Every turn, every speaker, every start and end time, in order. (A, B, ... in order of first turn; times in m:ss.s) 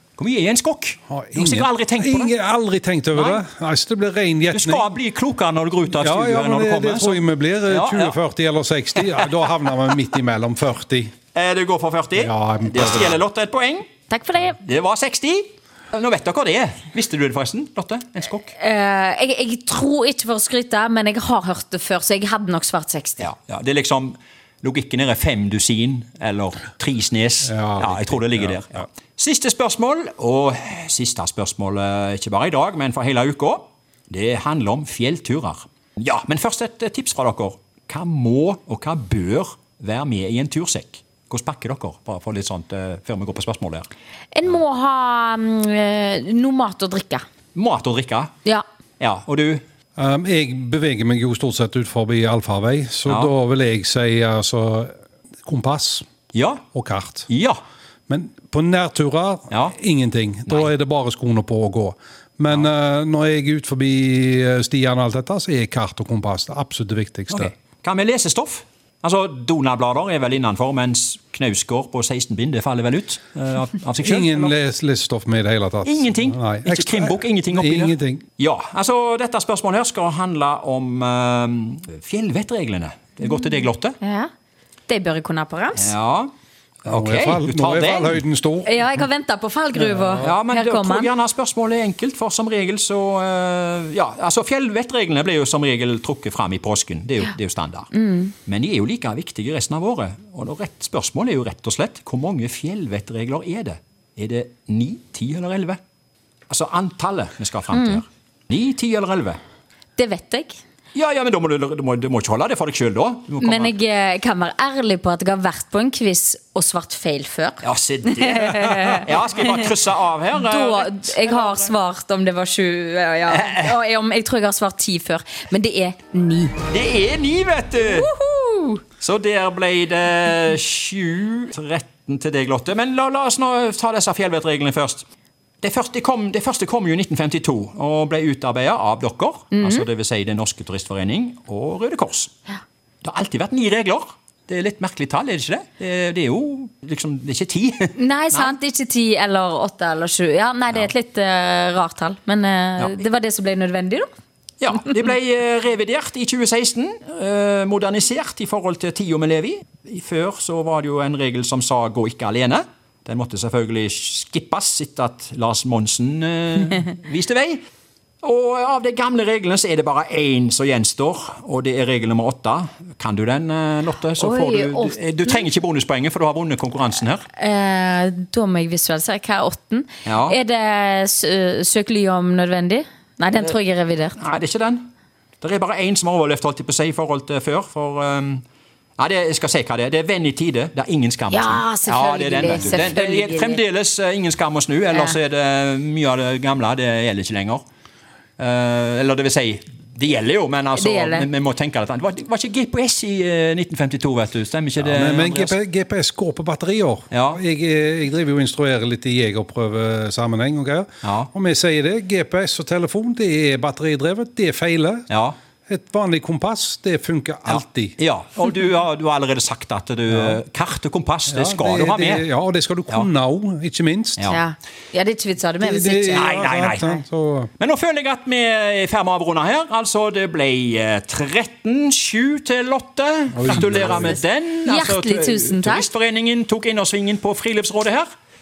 0:00.2-0:02.3 A
0:01.1-0:04.8 B
0:03.1-0:03.4 A
0:04.5-0:08.2 A
0:05.9-0:11.1 B
0:09.0-0:09.3 A
0:11.3-0:13.9 A
0:12.2-0:13.2 B
0:14.1-0:14.6 C
0:14.6-0:18.5 A
0:18.5-0:23.3 C
0:23.2-0:43.9 A
0:27.4-0:28.8 B
0:44.3-0:47.2 C
0:47.5-0:48.3 A
0:49.0-0:49.6 A
0:50.0-0:54.9 B
0:53.0-0:53.3 A
0:55.4-0:56.0 B
0:56.3-0:56.6 A
0:56.7-0:57.3 B
0:57.3-0:57.6 A
0:58.1-1:07.5 B
0:59.5-0:59.8 A
1:07.3-1:14.5 A
1:14.0-1:18.2 B
1:15.8-1:24.0 A
1:24.0-1:24.3 C
1:24.9-1:25.9 C
1:25.7-1:26.3 A
1:26.9-1:28.2 A
1:26.9-1:29.0 B
1:28.6-1:31.1 C
1:29.7-1:30.3 B
1:30.2-1:37.9 A
1:37.9-1:38.3 C
1:38.4-1:45.8 A
1:46.5-1:49.4 A
1:47.7-1:48.0 C
1:50.0-1:50.6 C
1:50.9-1:53.7 A
1:53.4-1:59.7 C
1:57.6-2:01.7 A
2:00.4-2:06.6 C
2:03.3-2:03.8 A
2:06.7-2:08.1 A
2:07.8-2:08.8 C
2:09.0-2:15.0 A
2:15.6-2:22.3 A
2:19.5-2:19.8 C
2:23.0-2:28.5 A
2:28.0-2:34.1 C
2:34.6-2:47.6 A
2:48.2-2:57.2 A
2:54.2-2:55.5 C
2:57.3-3:04.2 C
3:00.0-3:00.4 A
3:04.2-3:04.8 A
3:05.4-3:08.4 A
3:09.0-3:17.6 A
3:11.3-3:13.6 C
3:14.9-3:15.2 C
3:18.4-3:25.6 A
3:20.7-3:21.3 C
3:24.8-3:35.1 B
3:27.1-3:27.4 A
3:31.0-3:31.3 A
3:35.1-3:35.4 A
3:35.7-3:38.0 B
3:37.5-3:42.3 A
3:40.1-3:40.4 B
3:41.3-3:44.3 B
3:44.2-3:44.4 A
3:44.3-3:47.0 C
3:45.6-3:47.5 B
3:46.1-3:47.0 A
3:47.6-3:58.0 A
3:53.3-3:54.2 B
3:54.6-3:55.9 C